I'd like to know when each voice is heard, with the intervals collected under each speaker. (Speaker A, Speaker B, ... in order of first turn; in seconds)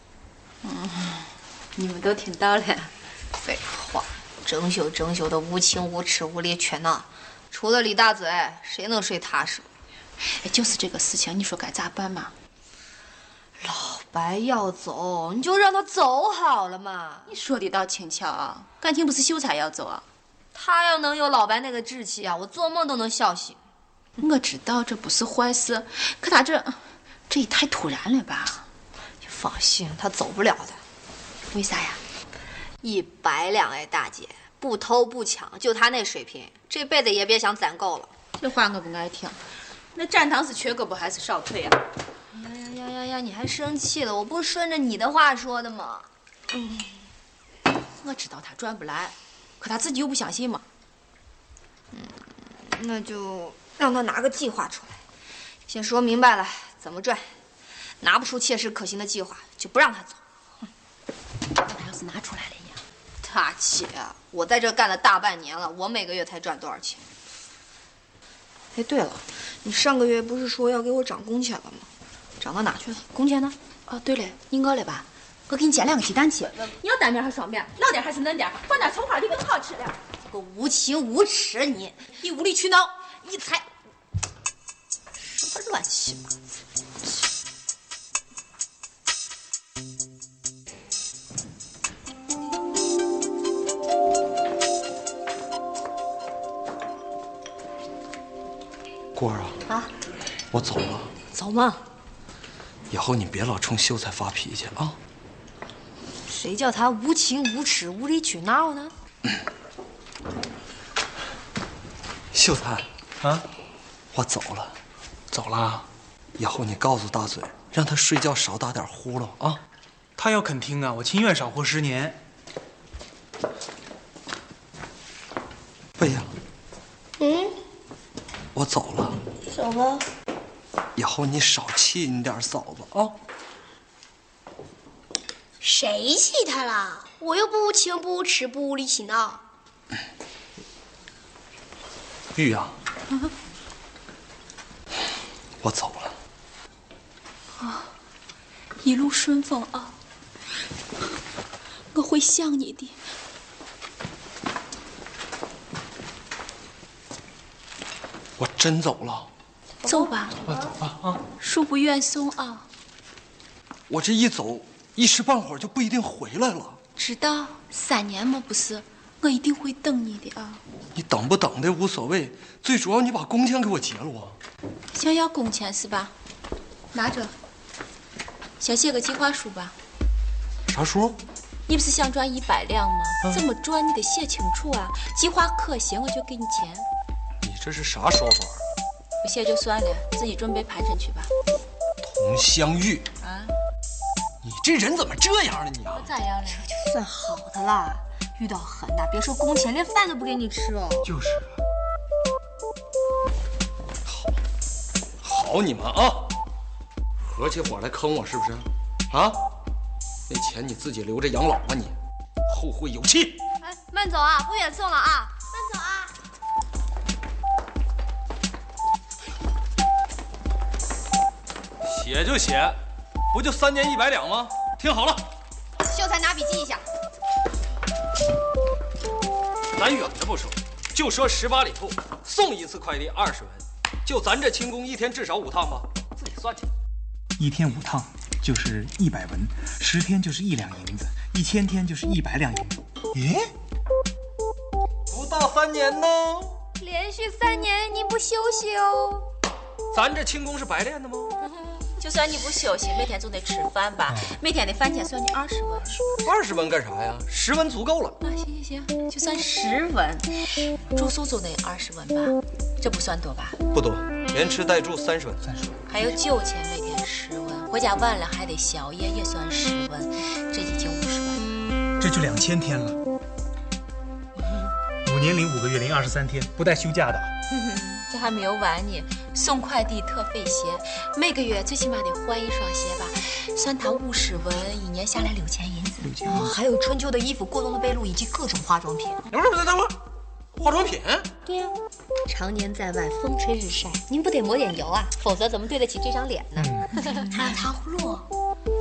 Speaker A: 0.6-2.9, 10.3-12.3, 17.3-20.0, 24.2-28.6, 31.5-32.0, 38.4-39.4, 39.9-41.8, 48.0-50.6, 61.6-62.8, 73.9-80.0, 82.2-83.6, 147.6-147.9, 148.8-149.9, 151.9-153.0, 159.8-160.4, 161.4-162.7, 167.0-170.6, 174.9-176.1, 176.9-177.3, 178.6-179.7, 181.7-186.8, 189.2-191.3, 193.2-193.5, 195.9-196.6, 252.0-255.9, 258.2-263.6, 265.9-271.6, 277.5-286.1
Speaker B: 3.4-9.7, 13.6-17.3, 20.5-23.6, 29.2-30.8, 32.8-38.1, 42.3-46.1, 51.9-55.0, 55.7-57.3, 58.0-60.2, 63.2-67.0, 68.7-71.9, 72.4-73.5, 80.3-82.1, 85.2-86.3, 101.3-101.8, 106.3-108.9, 196.4-201.1, 213.6-216.1, 225.8-226.8, 246.8-249.2, 286.2-289.2, 291.4-291.8, 292.3-297.5
Speaker C: 99.1-99.6, 100.5-101.1, 102.9-105.0, 112.3-112.9, 114.1-114.8, 116.4-119.6, 126.0-126.3, 128.5-129.2, 130.9-133.2, 142.3-142.8, 145.6-146.2, 158.4-159.3, 160.6-161.2, 163.9-166.8, 170.9-174.4, 180.7-181.2, 187.4-188.6, 192.0-193.1, 194.4-196.1, 204.0-204.4, 205.2-206.4, 207.2-209.5, 210.3-211.9, 212.5-213.4, 221.8-222.8, 223.3-225.3, 229.7-236.7, 245.1-246.6, 249.9-251.4, 256.2-258.2, 263.7-265.4, 289.3-289.9, 290.6-291.3
Speaker D: 115.3-115.8, 120.2-122.2, 201.0-201.5, 237.4-243.5, 265.4-265.8, 272.0-273.0, 275.0-277.3, 286.0-286.5, 296.6-296.9
Speaker E: 127.2-127.5, 129.5-130.0, 135.6-139.4, 297.2-298.3